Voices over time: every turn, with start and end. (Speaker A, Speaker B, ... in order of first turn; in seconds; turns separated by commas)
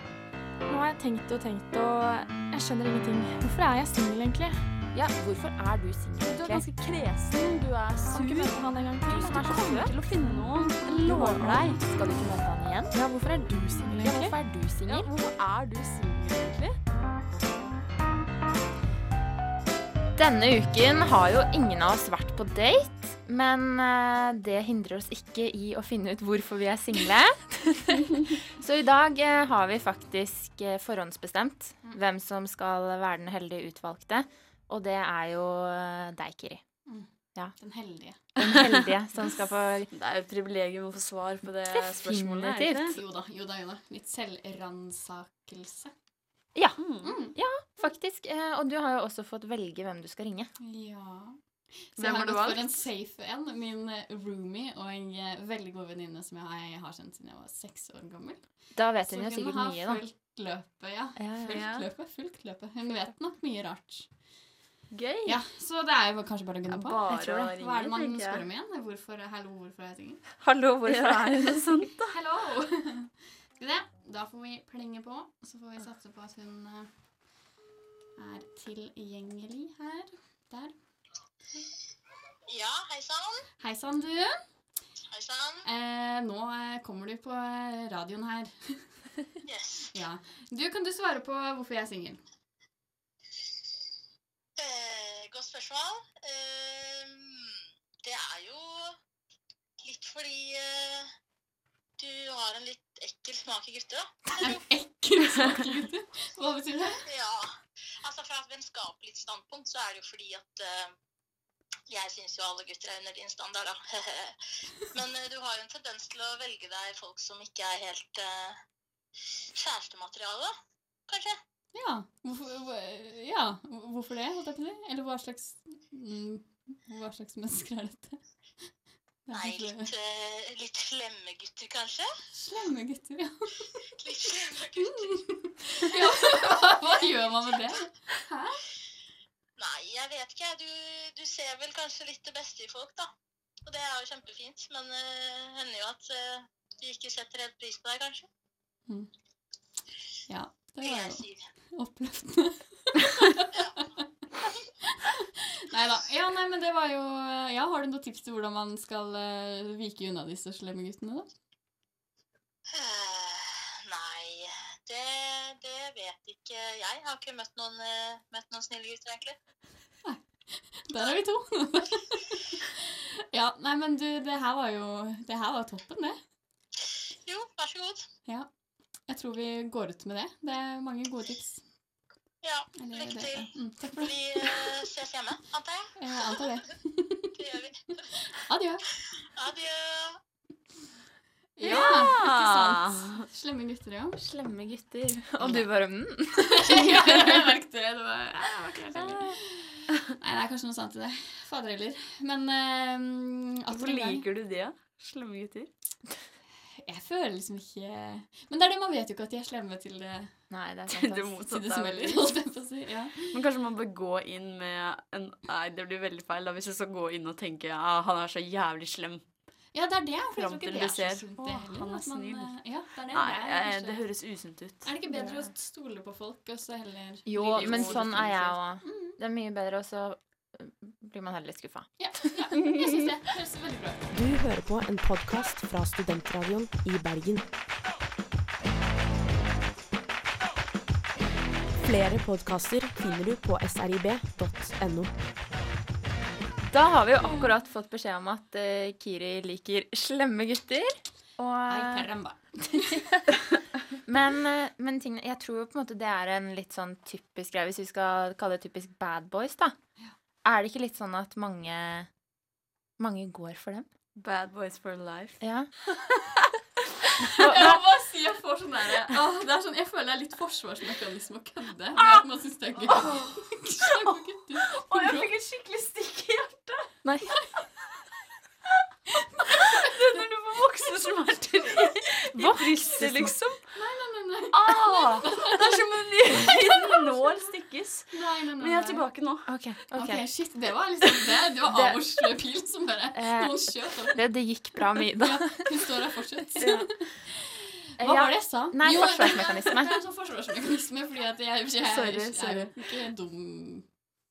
Speaker A: 0.7-4.5, Speaker B: 4.9-6.6, Speaker C: 6.2-11.8, Speaker B: 9.1-9.9, Speaker B: 11.0-13.0, Speaker A: 13.8-14.1, Speaker B: 14.0-15.1, Speaker C: 14.8-16.8, Speaker B: 20.1-36.6, Speaker D: 36.9-38.3, Speaker B: 38.4-39.9, Speaker C: 38.4-38.8, Speaker C: 39.9-43.0, Speaker B: 41.7-43.0, Speaker D: 42.9-45.9, Speaker B: 46.5-50.5, Speaker C: 46.8-47.1, Speaker D: 47.0-47.4, Speaker D: 50.6-64.3, Speaker C: 52.0-52.4, Speaker B: 52.1-52.6, Speaker B: 58.7-60.0, Speaker B: 61.2-61.6, Speaker C: 61.5-61.9, Speaker C: 64.9-65.4, Speaker D: 65.2-67.0, Speaker C: 66.7-68.5, Speaker B: 67.1-67.5, Speaker D: 67.6-70.2, Speaker B: 70.4-71.9, Speaker C: 70.8-72.1, Speaker D: 72.1-76.9, Speaker D: 78.2-80.8, Speaker E: 82.5-83.5, Speaker D: 83.6-84.4, Speaker E: 85.1-85.7, Speaker D: 85.6-89.1, Speaker E: 89.4-89.9, Speaker D: 89.9-92.2, Speaker E: 94.5-99.0, Speaker E: 99.8-101.1, Speaker E: 102.0-104.3, Speaker D: 104.4-107.0, Speaker E: 107.0-110.9, Speaker E: 111.9-118.6, Speaker E: 119.5-120.5, Speaker E: 121.1-121.4, Speaker D: 121.7-128.7, Speaker D: 129.2-129.9, Speaker E: 129.3-132.1, Speaker D: 132.3-133.8, Speaker E: 134.0-135.2, Speaker D: 134.9-138.6, Speaker E: 136.0-136.5, Speaker E: 139.6-143.1, Speaker E: 143.6-148.3, Speaker D: 150.3-154.0, Speaker E: 150.8-151.4, Speaker E: 153.5-153.9, Speaker D: 154.8-161.3, Speaker E: 162.7-169.4, Speaker D: 170.0-172.6, Speaker D: 173.3-176.2, Speaker E: 177.2-178.1, Speaker D: 178.2-181.7, Speaker E: 182.4-185.9, Speaker D: 182.8-184.7, Speaker D: 186.0-187.3, Speaker E: 187.3-188.0, Speaker D: 188.4-188.8, Speaker E: 189.3-190.2, Speaker D: 191.6-194.2, Speaker C: 191.6-193.2, Speaker B: 191.6-192.0, Speaker B: 194.2-196.9, Speaker D: 196.6-204.2, Speaker B: 198.9-199.3, Speaker C: 203.7-205.7, Speaker D: 206.8-210.5, Speaker B: 210.5-211.2, Speaker C: 210.9-212.3, Speaker D: 211.4-213.3, Speaker C: 213.3-219.5, Speaker D: 219.7-224.2, Speaker C: 220.3-224.9, Speaker D: 224.8-229.2, Speaker B: 225.1-225.5, Speaker B: 227.2-232.2, Speaker C: 227.5-228.5, Speaker D: 232.0-234.1, Speaker F: 234.1-237.5, Speaker F: 241.8-245.2, Speaker B: 246.7-252.1, Speaker D: 251.7-253.1, Speaker B: 252.8-253.3, Speaker B: 254.1-259.7, Speaker B: 260.4-262.1, Speaker B: 263.0-263.9, Speaker C: 264.2-265.4, Speaker B: 265.4-265.7, Speaker D: 267.2-275.3, Speaker B: 267.3-267.8, Speaker C: 272.9-273.6, Speaker C: 274.8-277.0, Speaker B: 277.0-277.4, Speaker C: 279.4-283.7, Speaker D: 279.5-280.2, Speaker B: 282.3-283.4, Speaker D: 283.7-285.6, Speaker C: 284.5-289.5, Speaker D: 286.4-286.8, Speaker D: 288.1-289.1, Speaker B: 289.5-290.2, Speaker D: 289.9-294.2, Speaker B: 291.6-292.0, Speaker B: 293.1-295.8, Speaker D: 295.2-297.3, Speaker B: 296.6-297.1, Speaker B: 298.0-299.9, Speaker D: 298.0-304.0, Speaker C: 301.8-303.0